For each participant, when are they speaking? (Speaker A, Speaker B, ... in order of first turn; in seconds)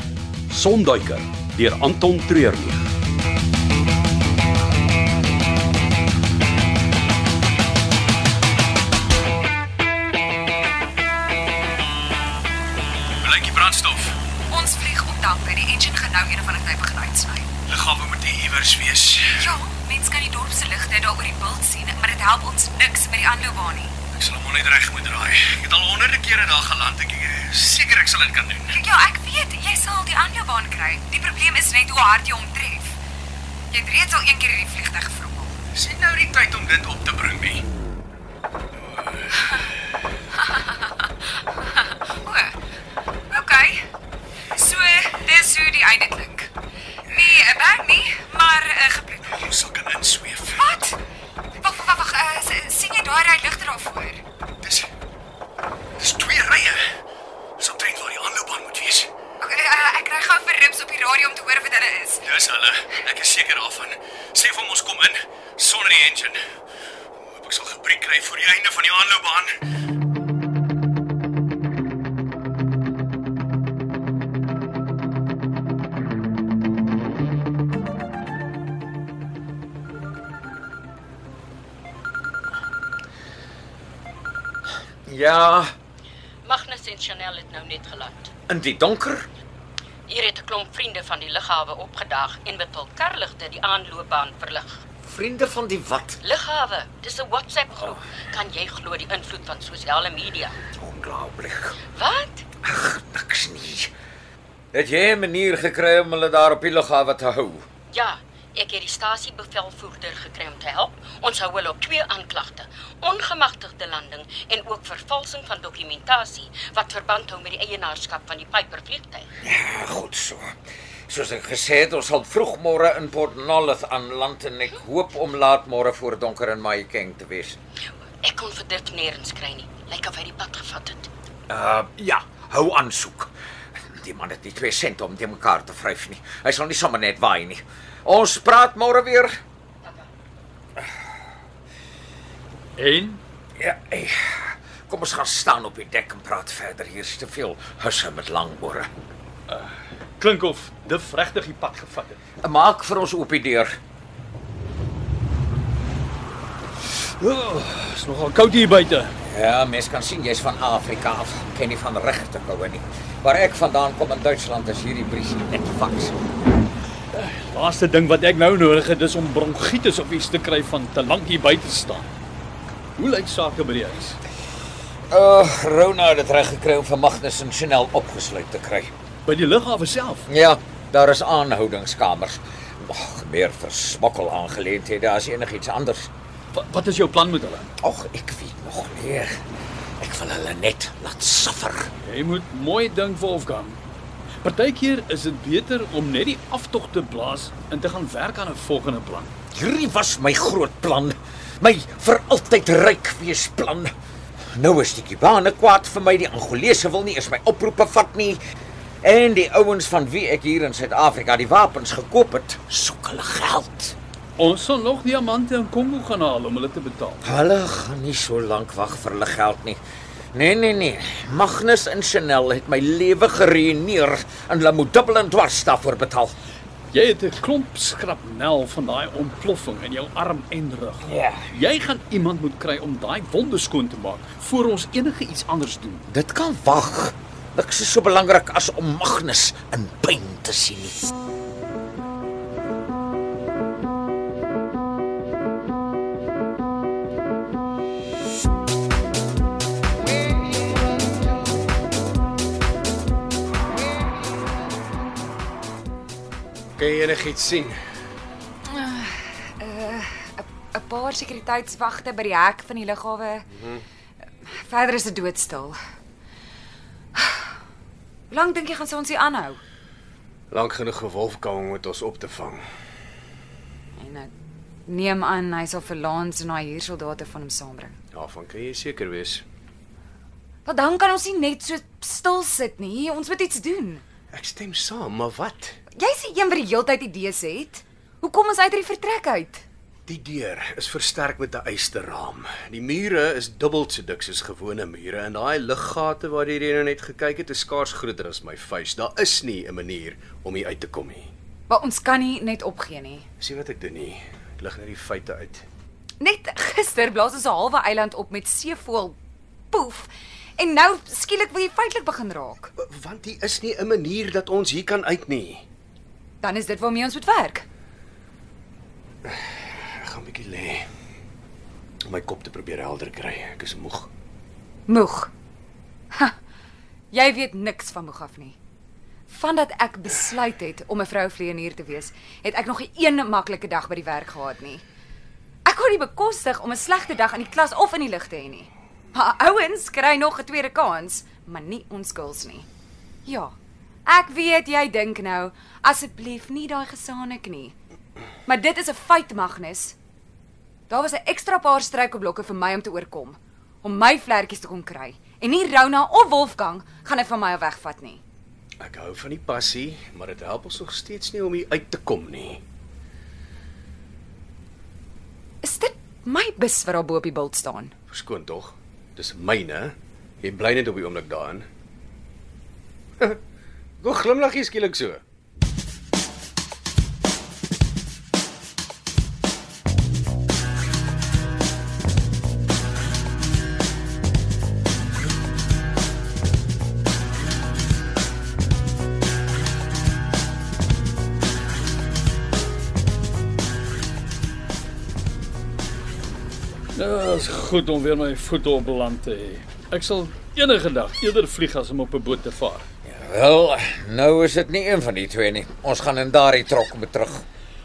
Speaker A: 0.5-2.8, 13.3-14.1
Speaker B: 13.3-13.7, 17.7-19.3, 24.1-28.8, 35.7-37.6, 49.4-50.7, 54.6-54.9, 56.0-56.8, 57.6-59.1, 62.2-66.4, 67.2-69.5, 256.8-257.8, 263.5-263.8, 270.5-272.6, 278.1-279.4, 284.3-285.8, 290.1-301.3, 303.4-305.6, 312.8-315.6, 319.2-320.8, 322.0-324.1, 358.8-362.6, 368.1-371.6, 374.0-375.2
Speaker C: 14.5-17.5, 19.4-23.9, 28.7-33.0, 33.7-35.6, 39.4-39.7, 40.3-42.5, 43.3-43.9, 44.5-46.5, 47.0-49.5, 50.6-51.0, 51.6-54.2, 59.4-62.2, 258.6-263.5, 264.5-265.8, 268.3-269.6, 274.0-274.3, 274.9-277.9, 280.6-284.0, 285.9-289.6, 301.7-303.2, 306.2-309.2, 309.7-312.7, 316.4-317.6, 324.9-325.3, 327.1-328.6, 329.3-334.8, 335.6-342.6, 343.2-343.5, 344.1-347.7, 348.4-349.9, 350.9-358.2, 365.6-367.9
Speaker D: 85.1-85.7, 88.5-89.3, 95.0-96.2, 100.8-101.8, 102.6-103.9, 104.7-107.7, 119.4-120.5, 121.1-127.5, 131.5-133.3, 133.9-139.4, 143.6-148.9, 152.4-153.8, 159.2-166.2, 175.1-178.9, 180.3-186.1, 187.8-189.4, 190.0-191.9, 199.5-203.9, 204.5-208.4, 209.0-213.9, 217.2-219.8, 220.3-226.3, 231.0-231.5, 236.1-241.1, 403.1-407.4
Speaker E: 86.4-88.3, 90.1-94.8, 96.2-100.6, 101.9-102.4, 107.9-119.3, 128.2-131.1
Speaker F: 142.8-143.2, 149.5-152.2, 157.0-159.1, 167.1-172.1, 173.0-174.2, 179.2-180.2, 186.5-187.7, 192.0-193.8, 194.4-199.3, 214.4-217.2, 226.9-236.1, 396.9-402.9